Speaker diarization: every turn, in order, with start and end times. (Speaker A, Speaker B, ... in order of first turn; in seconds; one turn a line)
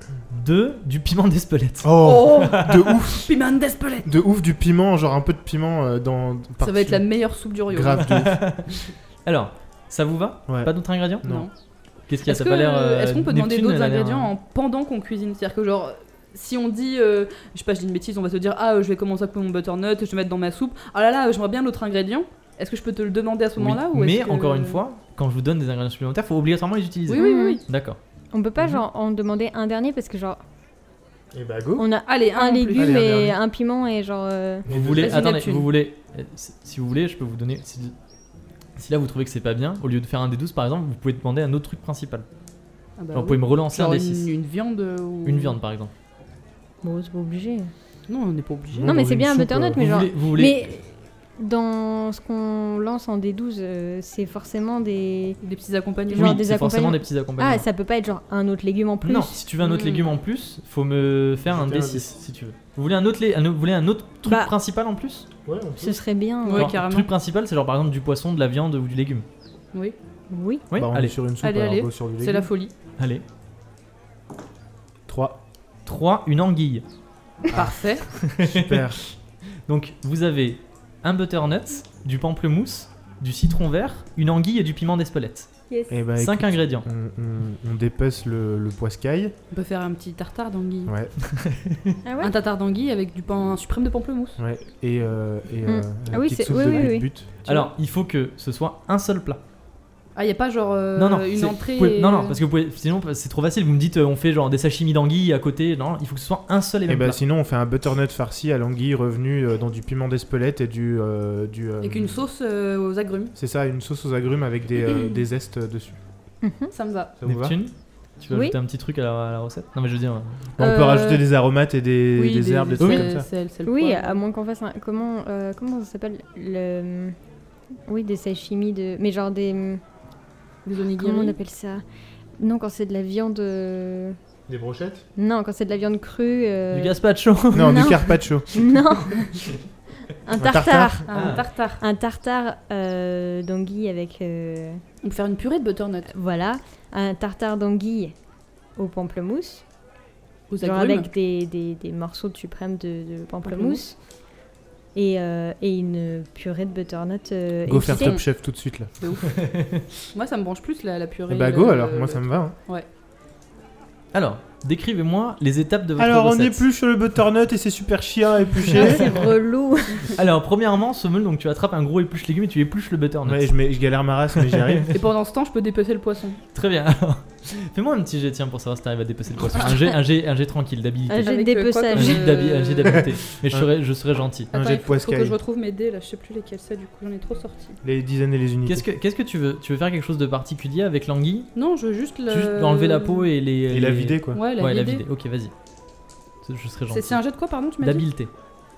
Speaker A: 0.3-2.9
Speaker B: 1.8-3.3
Speaker C: 2.0-4.1
Speaker B: 4.0-7.0
Speaker C: 6.6-8.1
Speaker B: 7.7-8.4
Speaker A: 8.0-8.7
Speaker A: 9.3-11.4
Speaker B: 10.5-11.5
Speaker C: 11.2-11.5
Speaker A: 12.1-14.3
Speaker C: 12.3-24.8
Speaker A: 23.6-28.0
Speaker C: 27.1-27.6
Speaker D: 27.1-27.6
Speaker D: 28.3-30.4
Speaker B: 31.3-31.9
Speaker D: 31.8-34.7
Speaker C: 32.1-33.0
Speaker B: 32.7-33.4
Speaker B: 34.6-35.2
Speaker A: 34.7-37.9
Speaker C: 35.0-35.7
Speaker A: 38.8-42.3
Speaker C: 43.0-45.6
Speaker A: 43.1-44.3
Speaker A: 45.2-45.9
Speaker D: 46.8-47.7
Speaker C: 48.1-49.0
Speaker B: 48.7-50.0
Speaker D: 48.8-55.4
Speaker A: 49.8-50.7
Speaker C: 55.4-56.5
Speaker D: 56.1-59.3
Speaker A: 56.1-57.6
Speaker A: 59.0-65.3
Speaker C: 59.6-60.1
Speaker B: 61.5-62.1
Speaker D: 64.2-64.5
Speaker B: 65.5-66.0
Speaker D: 65.8-66.7
Speaker C: 66.5-67.1
Speaker A: 66.5-69.2
Speaker D: 70.3-70.7
Speaker A: 70.7-71.1
Speaker B: 70.8-72.5
Speaker C: 71.4-72.7
Speaker A: 73.0-73.2
Speaker B: 75.1-75.4
Speaker A: 75.9-76.8
Speaker C: 77.5-78.0
Speaker A: 78.1-79.1
Speaker B: 78.4-79.0
Speaker A: 79.7-85.5
Speaker D: 85.7-86.0
Speaker B: 85.9-89.3
Speaker A: 86.2-86.9
Speaker C: 89.5-90.9
Speaker B: 90.9-91.1
Speaker A: 91.2-92.0
Speaker D: 92.0-92.3
Speaker C: 92.2-94.4
Speaker B: 94.4-97.3
Speaker D: 95.7-97.1
Speaker A: 97.5-99.4
Speaker C: 100.2-102.4
Speaker A: 101.0-107.2
Speaker B: 106.9-112.2
Speaker C: 111.8-113.3
Speaker B: 113.4-116.0
Speaker C: 114.8-115.2
Speaker D: 116.4-116.7
Speaker C: 116.7-117.1
Speaker B: 117.2-117.6
Speaker A: 117.2-120.4
Speaker B: 120.6-123.3
Speaker D: 120.6-121.2
Speaker C: 122.2-124.2
Speaker A: 122.8-123.1
Speaker D: 123.7-127.2
Speaker D: 127.9-129.8
Speaker C: 130.7-131.4
Speaker D: 131.0-131.8
Speaker D: 132.4-134.2
Speaker B: 134.5-135.1
Speaker D: 135.2-137.0
Speaker A: 136.7-138.1
Speaker B: 137.5-138.5
Speaker D: 137.5-139.4
Speaker D: 140.1-144.8
Speaker B: 140.4-141.1
Speaker C: 141.1-141.8
Speaker A: 141.1-141.4
Speaker C: 145.0-146.1
Speaker D: 146.1-148.2
Speaker D: 148.8-149.6
Speaker C: 150.5-151.1
Speaker D: 150.6-154.0
Speaker C: 153.4-153.8
Speaker D: 154.9-158.2
Speaker B: 157.7-158.9
Speaker C: 157.9-158.2
Speaker C: 159.0-159.4
Speaker A: 159.3-159.8
Speaker C: 160.1-162.9
Speaker B: 161.3-162.5
Speaker A: 164.1-166.6
Speaker B: 166.0-169.1
Speaker A: 168.6-169.1
Speaker D: 168.7-170.2
Speaker A: 170.1-173.5
Speaker B: 173.2-174.9
Speaker A: 174.3-174.9
Speaker C: 174.9-176.4
Speaker A: 176.5-181.3
Speaker D: 181.1-182.4
Speaker C: 181.2-183.1
Speaker A: 181.9-184.5
Speaker B: 184.5-185.4
Speaker C: 184.5-187.8
Speaker B: 187.8-188.8
Speaker A: 188.7-191.5
Speaker C: 191.6-193.3
Speaker A: 192.3-195.5
Speaker B: 193.7-194.4
Speaker C: 194.3-195.0
Speaker A: 196.4-197.2
Speaker C: 196.9-198.1
Speaker A: 197.8-198.3